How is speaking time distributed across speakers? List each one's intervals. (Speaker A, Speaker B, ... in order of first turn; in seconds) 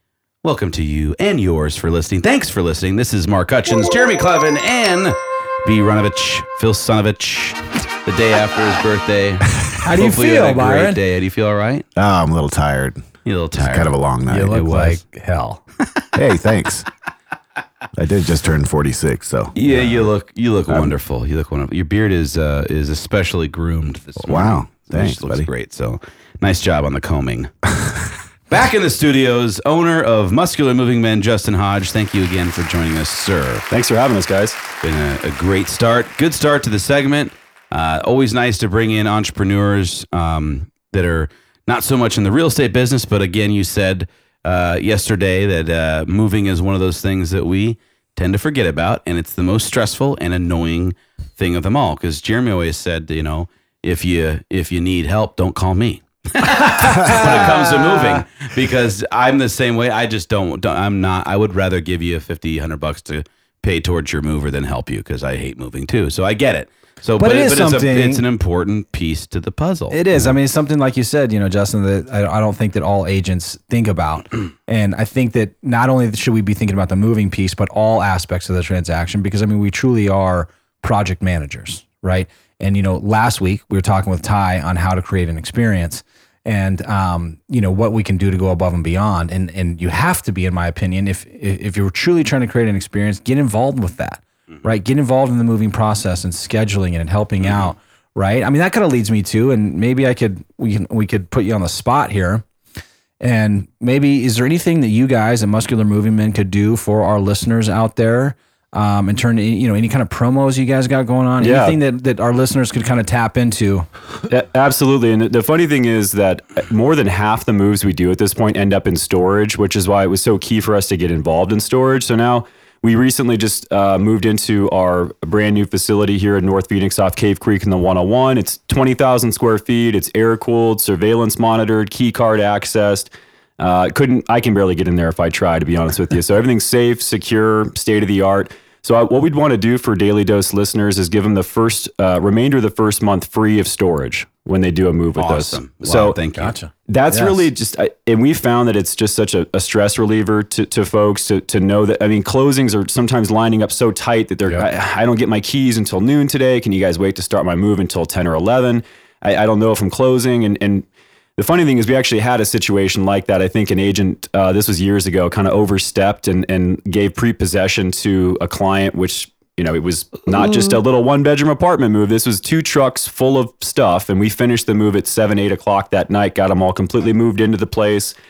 Speaker A: 0.4-11.8, 13.2-13.9, 14.5-15.0, 19.5-27.5, 28.5-33.7, 34.8-70.3, 97.4-97.7, 145.2-146.5
Speaker B: 9.8-11.0, 14.3-15.6, 57.1-58.2, 67.2-68.2, 69.9-102.4, 103.2-113.9, 146.4-147.5
Speaker C: 11.9-14.8, 16.1-16.9, 17.9-20.1, 24.2-25.5
Speaker D: 33.7-34.6, 111.4-111.8, 114.3-146.2, 146.9-160.9, 161.4-178.1